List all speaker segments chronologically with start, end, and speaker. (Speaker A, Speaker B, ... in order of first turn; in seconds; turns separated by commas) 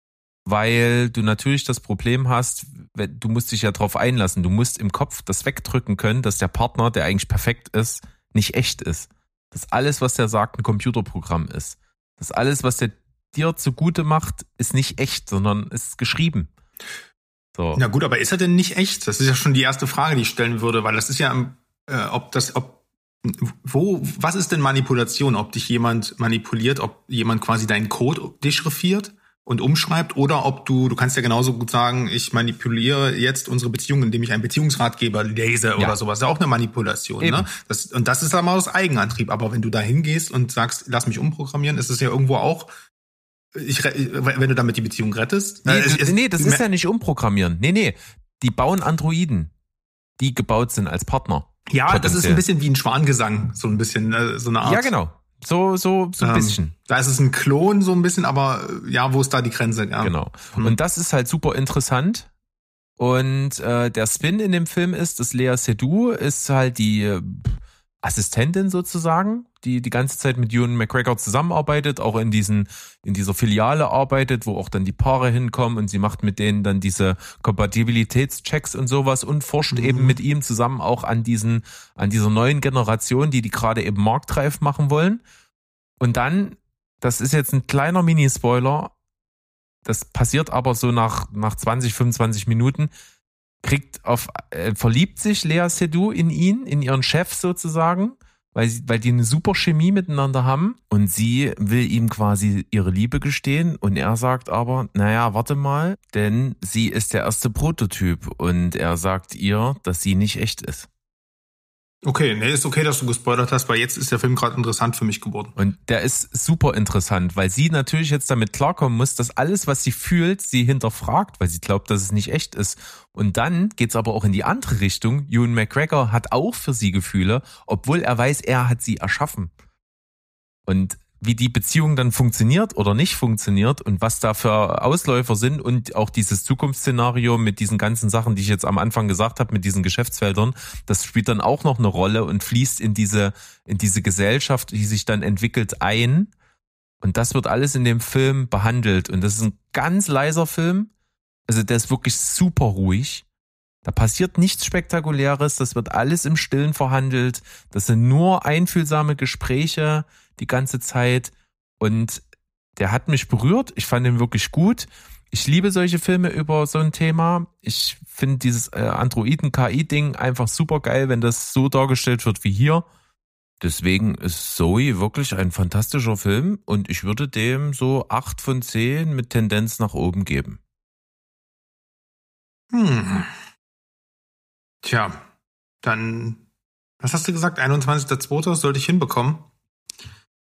Speaker A: 0.5-16.5, Speaker A: 17.6-17.8, Speaker B: 17.8-42.7, Speaker A: 37.2-37.5, Speaker B: 43.5-46.6, Speaker A: 45.7-49.5, Speaker A: 50.2-52.4, Speaker B: 51.7-54.9, Speaker A: 54.6-56.7, Speaker B: 56.2-60.8, Speaker A: 60.0-62.3, Speaker A: 63.0-85.2, Speaker B: 79.7-80.2, Speaker A: 86.0-88.9, Speaker A: 89.8-92.9, Speaker A: 93.6-110.9, Speaker B: 112.0-115.5, Speaker A: 115.6-129.5, Speaker A: 130.7-146.3, Speaker A: 147.0-150.9, Speaker A: 151.5-153.2, Speaker A: 153.8-162.2, Speaker A: 162.8-172.8, Speaker A: 173.6-180.6, Speaker B: 182.7-183.3, Speaker B: 184.8-185.2, Speaker B: 185.8-186.4, Speaker B: 187.0-189.5